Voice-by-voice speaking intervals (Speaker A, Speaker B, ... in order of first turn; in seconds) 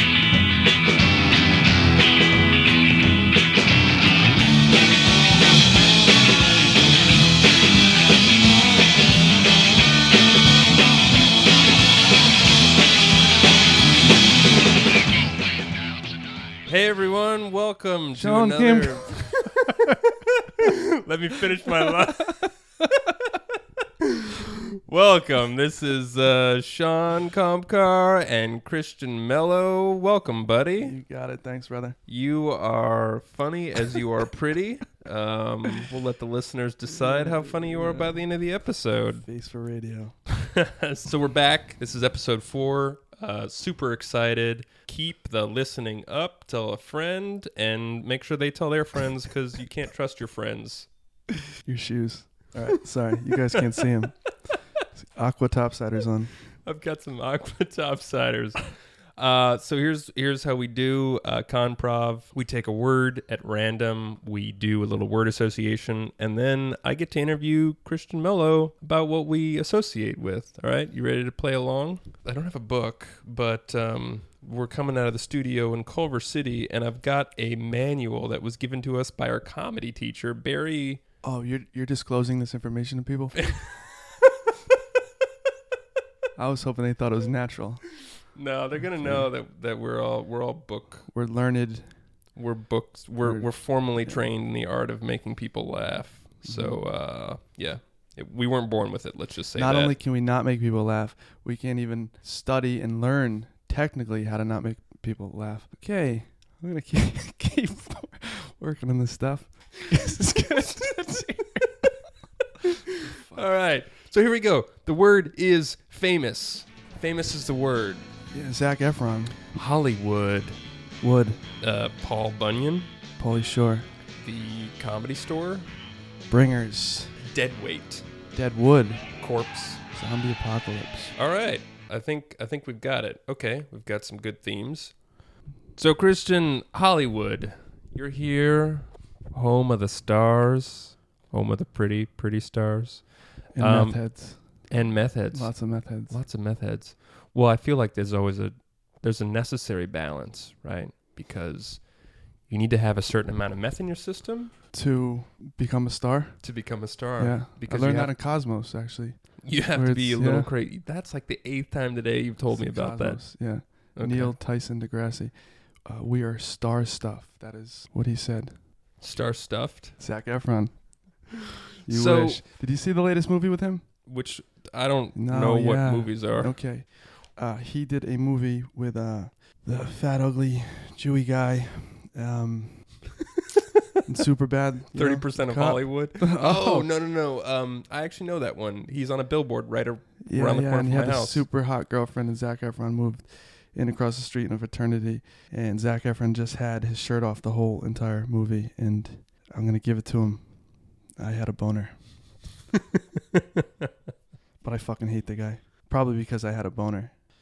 Speaker A: 16.6-19.9, 20.4-22.5, 24.0-31.0, 32.1-39.2, 40.4-50.9, 56.6-58.6, 59.2-81.0, 83.4-84.0, 88.3-91.1, 92.3-100.0, 112.6-118.0, 119.5-120.6, 121.6-122.9, 124.2-125.7, 127.2-128.1, 129.2-129.8, 131.1-134.9, 135.8-144.0, 144.7-151.9, 152.4-154.5, 156.4-158.1, 159.4-163.2, 163.9-164.3, 169.0-169.9, 171.9-172.4, 174.0-176.6, 184.9-191.4, 202.9-203.9
Speaker B: 18.1-19.8, 30.8-32.0, 36.9-38.2, 39.2-40.1, 51.6-54.1, 55.0-56.3, 81.2-83.5, 86.4-87.8, 88.9-89.3, 91.1-91.9, 93.2-94.2, 96.4-96.8, 99.5-111.7, 113.0-113.5, 118.3-119.5, 121.0-121.4, 123.2-123.9, 126.3-127.2, 128.3-129.1, 129.9-131.2, 143.5-144.7, 145.3-146.2, 154.7-156.4, 157.2-160.5, 162.5-165.3, 165.8-168.5, 170.0-170.9, 171.8-173.8, 175.1-182.9, 184.1-186.9, 190.2-200.5, 201.2-202.0, 204.6-207.1